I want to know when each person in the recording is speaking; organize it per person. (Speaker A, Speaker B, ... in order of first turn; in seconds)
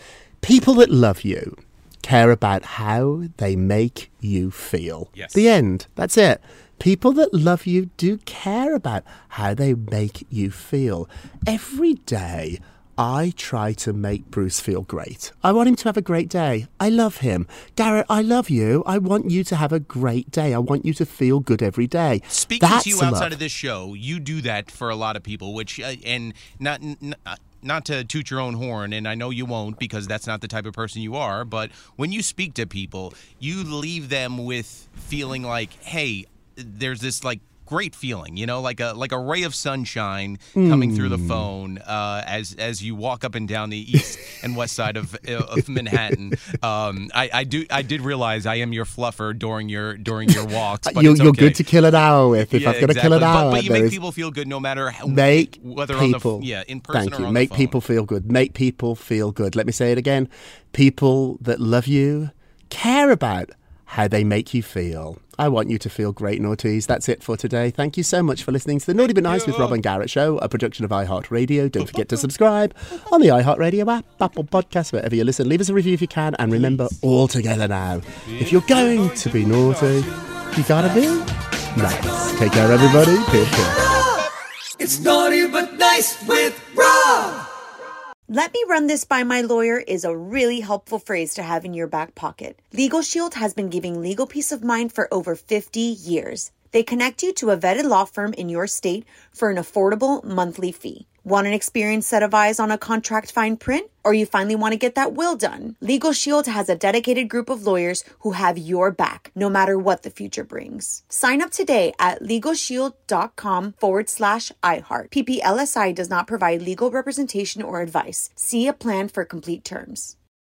Speaker A: 0.4-23.3, 40.5-41.5, 45.5-46.2, 50.3-54.0, 55.1-83.9
Speaker B: 5.1-5.4, 22.3-51.6, 52.4-57.8, 69.0-69.8, 71.9-72.2, 78.3-80.2
Speaker C: 84.8-87.4
Speaker D: 88.3-120.2